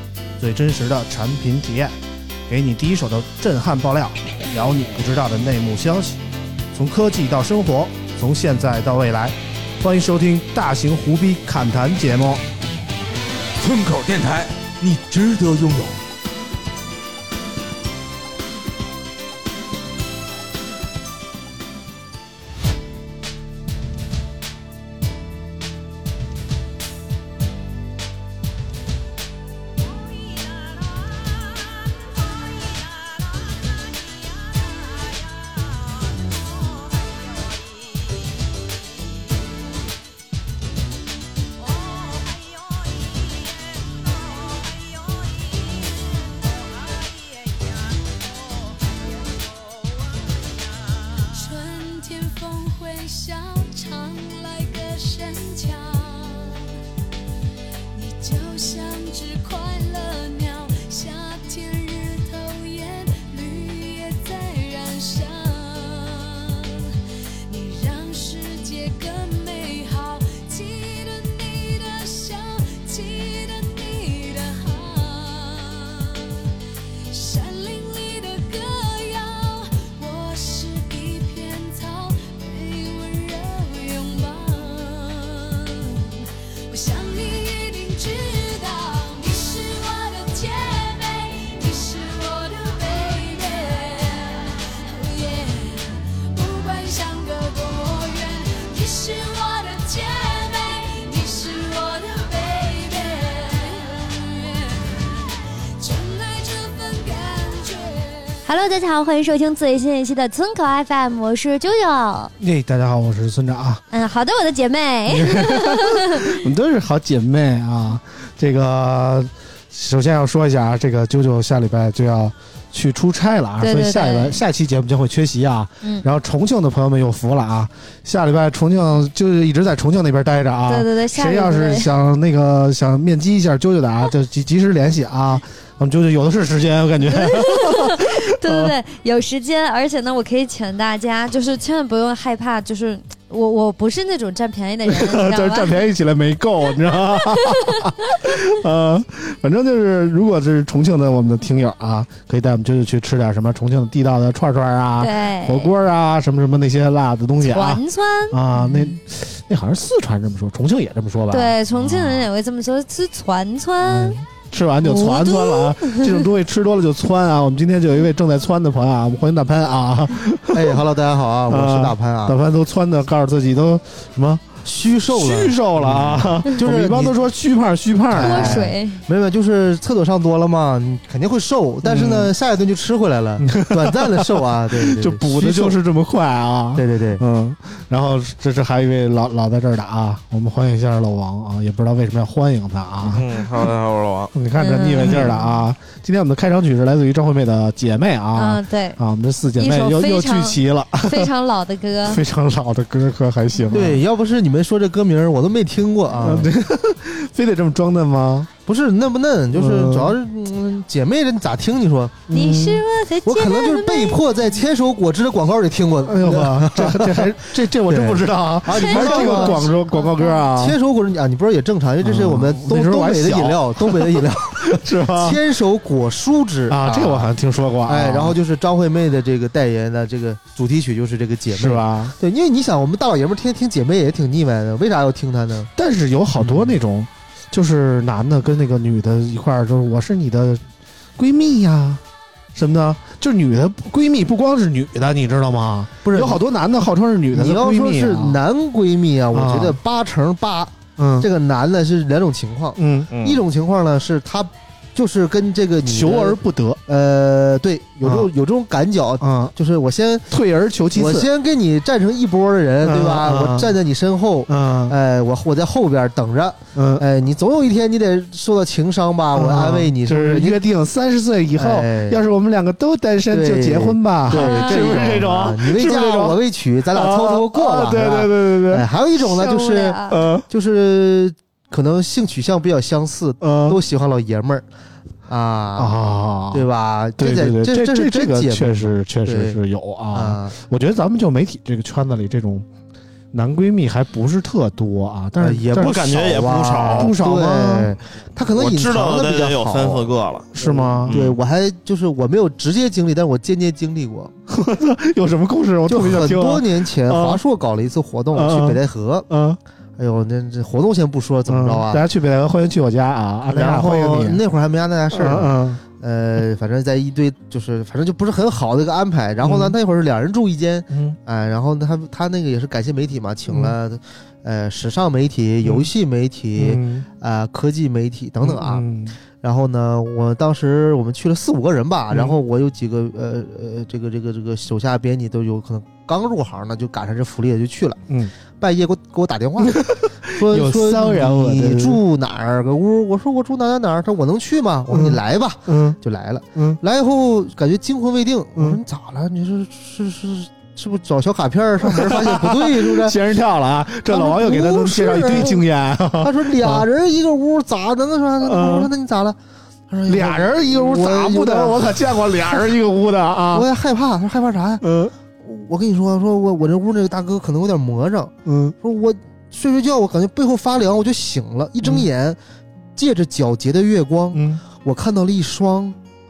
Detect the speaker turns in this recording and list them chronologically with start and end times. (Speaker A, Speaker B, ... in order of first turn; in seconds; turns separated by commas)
Speaker A: 0.4-1.9, Speaker A: 2.5-6.2, Speaker A: 6.7-12.4, Speaker B: 13.6-16.0, Speaker C: 42.1-42.7, Speaker C: 44.5-46.1, Speaker C: 46.8-47.9, Speaker C: 49.7-50.0, Speaker C: 50.9-56.7, Speaker C: 57.9-76.5, Speaker C: 77.1-108.5, Speaker D: 108.4-112.3, Speaker A: 112.4-113.8, Speaker D: 113.9-116.4, Speaker A: 115.1-138.7, Speaker D: 123.6-124.4, Speaker D: 130.7-131.9, Speaker D: 137.1-145.8, Speaker A: 144.8-162.3, Speaker D: 147.1-148.3, Speaker D: 155.0-155.7, Speaker D: 157.4-158.9, Speaker D: 161.3-164.2, Speaker A: 163.8-170.8, Speaker D: 164.8-166.2, Speaker E: 170.5-172.4, Speaker A: 171.5-178.7, Speaker E: 174.6-177.2, Speaker E: 178.1-185.8, Speaker D: 178.1-179.0, Speaker A: 181.8-182.3, Speaker A: 183.4-193.7, Speaker E: 186.8-187.2, Speaker F: 193.0-194.3, Speaker A: 194.3-201.3, Speaker D: 194.6-195.6, Speaker D: 198.3-199.0, Speaker D: 199.6-202.2, Speaker A: 202.0-204.0, Speaker D: 203.5-203.9, Speaker E: 203.7-206.5, Speaker A: 206.2-208.5, Speaker E: 208.7-212.3, Speaker A: 209.5-210.2, Speaker A: 212.3-212.9, Speaker D: 212.3-214.2, Speaker E: 213.2-219.6, Speaker A: 216.0-220.8, Speaker D: 218.7-220.5, Speaker E: 220.5-227.3, Speaker A: 222.0-225.4, Speaker A: 226.7-228.4, Speaker E: 227.8-235.7, Speaker A: 231.5-232.1, Speaker A: 235.8-240.6, Speaker E: 236.4-236.7, Speaker A: 241.2-242.0, Speaker A: 242.5-248.4, Speaker E: 246.0-246.4, Speaker E: 247.3-260.3, Speaker A: 249.3-249.8, Speaker A: 251.0-251.3, Speaker A: 252.8-253.1, Speaker F: 253.1-253.4, Speaker A: 255.8-256.8, Speaker A: 258.0-258.3, Speaker A: 259.2-259.5, Speaker A: 260.3-261.3, Speaker E: 260.9-270.6, Speaker A: 262.8-263.8, Speaker A: 264.5-264.9, Speaker A: 266.7-267.0, Speaker A: 269.3-276.4, Speaker E: 271.5-272.2, Speaker E: 273.3-284.6, Speaker D: 274.3-275.1, Speaker A: 276.9-278.8, Speaker D: 279.2-280.2, Speaker A: 280.1-280.4, Speaker A: 283.4-283.8, Speaker E: 285.3-285.9, Speaker A: 285.8-286.6, Speaker E: 286.5-289.6, Speaker A: 287.2-292.6, Speaker E: 290.1-290.5, Speaker A: 293.3-297.9, Speaker E: 295.4-304.3, Speaker F: 295.7-297.2, Speaker F: 298.5-301.4, Speaker A: 300.5-301.2, Speaker A: 304.5-307.4, Speaker E: 305.9-309.3, Speaker A: 308.3-309.6, Speaker E: 310.0-312.0, Speaker A: 311.5-314.4, Speaker E: 313.5-328.8, Speaker A: 315.1-315.8, Speaker A: 319.4-319.8, Speaker A: 320.9-321.2, Speaker A: 323.5-323.8, Speaker A: 325.6-325.9, Speaker A: 326.6-327.1, Speaker A: 328.4-329.1, Speaker E: 329.4-338.0, Speaker A: 332.1-332.4, Speaker A: 338.1-338.3, Speaker E: 338.6-353.2, Speaker A: 339.6-342.0, Speaker A: 344.9-346.0, Speaker A: 348.6-348.8, Speaker A: 351.8-356.9, Speaker E: 354.1-355.6, Speaker E: 356.2-359.4, Speaker A: 358.4-358.9, Speaker E: 359.9-361.9, Speaker A: 360.1-363.7, Speaker E: 363.5-364.8, Speaker A: 364.8-365.1, Speaker E: 365.4-372.4, Speaker A: 368.4-368.7, Speaker E: 372.9-375.9, Speaker A: 374.3-374.6